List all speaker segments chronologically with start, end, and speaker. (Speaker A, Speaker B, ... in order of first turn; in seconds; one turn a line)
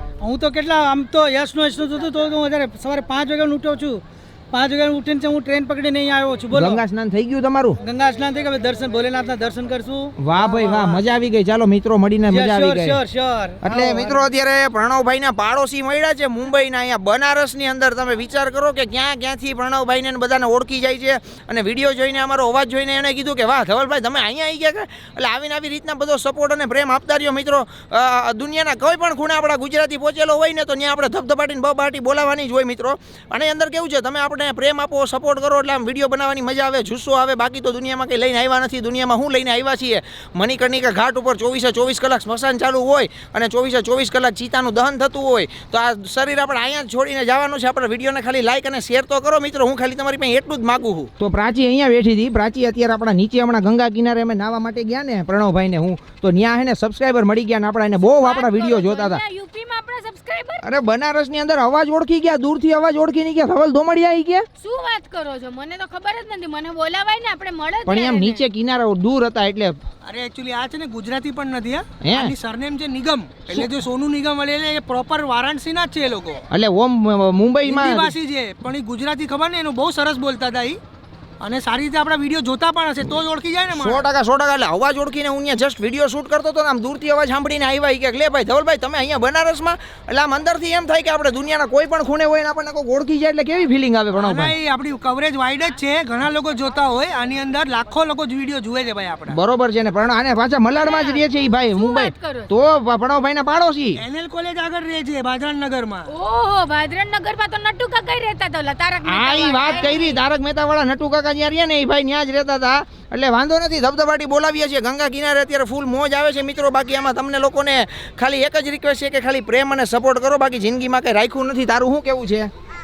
Speaker A: 0.2-4.0
Speaker A: 4.5-6.8
Speaker B: 6.5-7.8
Speaker A: 7.8-11.0
Speaker B: 10.2-13.0
Speaker A: 12.3-14.2
Speaker B: 13.6-59.2
Speaker C: 58.0-60.6
Speaker B: 60.6-64.5
Speaker C: 64.6-68.4
Speaker B: 67.9-69.8
Speaker D: 70.0-76.4
Speaker B: 72.0-72.3
Speaker B: 76.5-78.1
Speaker D: 77.7-80.8
Speaker D: 81.4-84.1
Speaker B: 83.7-94.5
Speaker D: 94.2-99.4
Speaker B: 99.3-104.0
Speaker C: 100.8-102.5
Speaker D: 104.0-106.1
Speaker C: 106.1-110.2
Speaker B: 109.1-122.5